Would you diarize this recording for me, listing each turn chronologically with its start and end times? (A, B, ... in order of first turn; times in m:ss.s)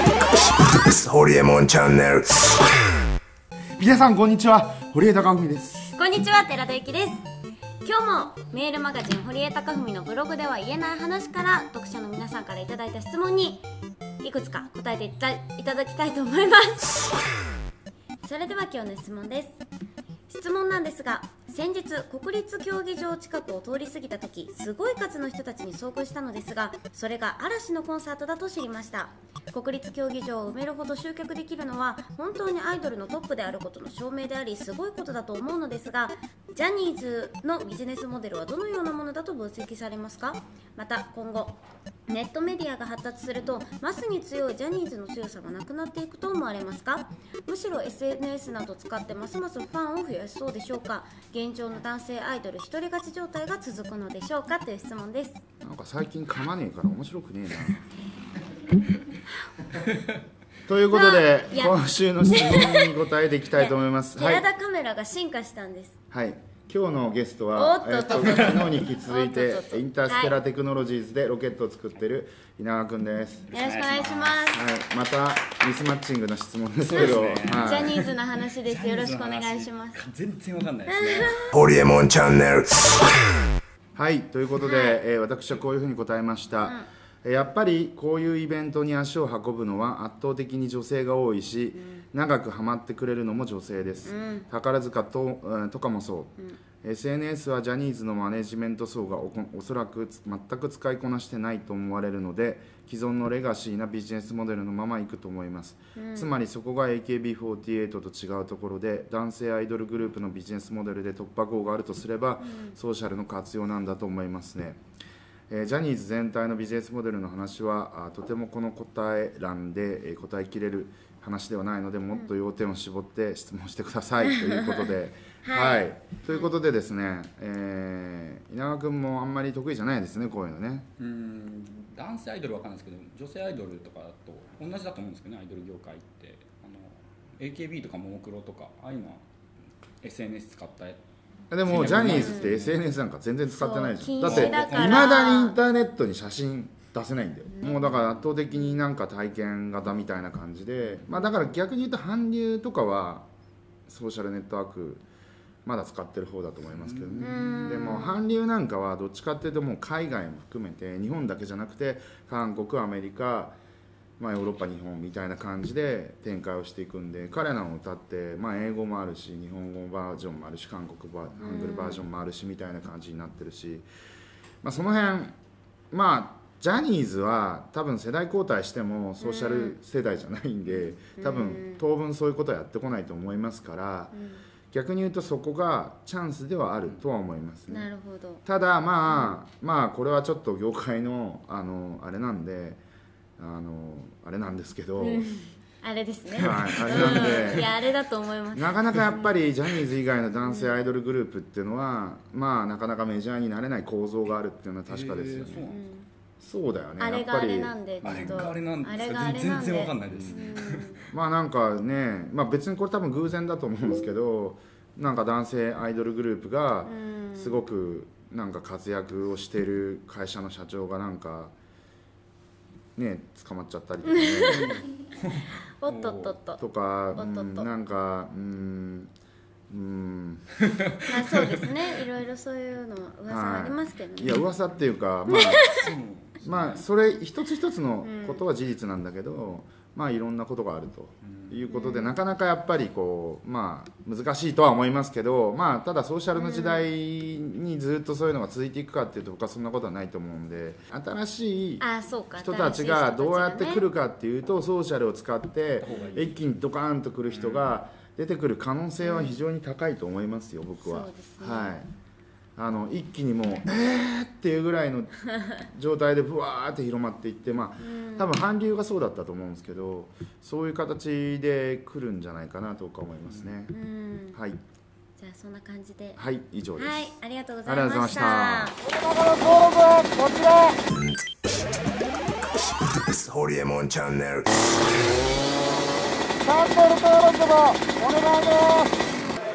0:00.7-0:02.7 A
0:03.8-0:05.9 B
0:05.9-0:07.2 C
0:07.8-0:13.6 C
0:14.2-0:17.1 C
0:18.2-0:19.6 C
0:20.3-0:55.4 C
0:55.6-0:57.8 B
1:00.7-1:04.4 B
1:00.9-1:02.9 C
1:03.6-1:05.9 C
1:06.1-1:13.4 B
1:07.5-1:10.4 C
1:13.5-1:14.5 D
1:13.5-1:14.6 C
1:14.5-1:17.9 B
1:16.8-1:18.1 D
1:17.1-1:20.0 C
1:18.6-1:21.4 D
1:20.9-1:21.5 C
1:21.5-1:23.2 A
1:23.9-1:54.8 B
1:24.6-1:25.0 C
1:34.0-1:34.5 C
1:45.9-1:46.3 C
1:52.4-1:52.7 C
1:55.5-2:10.8 B
2:04.3-2:04.8 C
2:05.4-2:06.5 C
2:11.0-2:19.2 D
2:20.0-2:21.0 D
2:21.5-2:33.2 B
2:21.6-2:22.8 D
2:22.0-2:22.7 C
2:23.5-2:25.6 C
2:24.2-2:25.1 D
2:27.5-2:28.2 C
2:33.9-2:35.0 B
2:35.6-2:43.5 B
2:36.7-2:37.9 D
2:37.2-2:38.2 C
2:44.2-2:53.8 B
2:51.4-2:52.0 C
2:54.6-2:55.4 B
2:55.9-3:04.1 B
2:59.2-2:59.8 C
3:01.2-3:01.8 C
3:04.1-3:04.4 C
3:04.7-3:07.9 B
3:07.7-3:08.4 C
3:08.4-3:12.8 B
3:09.1-3:09.4 C
3:13.4-3:15.2 B
3:15.0-3:18.8 C
3:16.3-3:17.7 B
3:16.8-3:17.6 D
3:18.5-3:25.6 B
3:20.4-3:20.7 C
3:24.9-3:25.8 D
3:25.7-3:26.1 C
3:26.4-3:28.4 B
3:27.0-3:31.1 C
3:28.0-3:30.9 D
3:30.1-3:30.5 B
3:31.1-3:41.5 B
3:36.8-3:37.6 C
3:43.0-3:44.7 B
3:44.1-3:44.8 C
3:44.5-3:46.4 D
3:45.6-3:46.6 C
3:46.6-3:49.1 B
3:47.1-3:47.7 C
3:49.7-3:50.5 B
3:51.0-3:54.4 C
3:53.3-3:55.6 B
3:55.3-3:55.8 C
3:55.7-3:56.8 D
3:56.4-4:11.8 B
3:58.0-3:58.4 C
4:01.2-4:01.6 D
4:01.7-4:02.2 C
4:06.3-4:06.8 C
4:11.8-4:13.9 C
4:12.4-4:21.9 B
4:15.8-4:16.4 D
4:17.3-4:17.7 D
4:19.0-4:19.4 C
4:20.8-4:21.7 C
4:22.6-4:33.7 B
4:27.8-4:28.3 C
4:33.2-4:33.5 D
4:33.7-4:34.4 C
4:34.3-4:34.6 B
4:35.2-4:36.2 C
4:36.2-4:40.8 B
4:36.8-4:38.8 C
4:40.9-4:41.2 A
4:42.8-4:44.7 A
4:46.4-4:48.9 B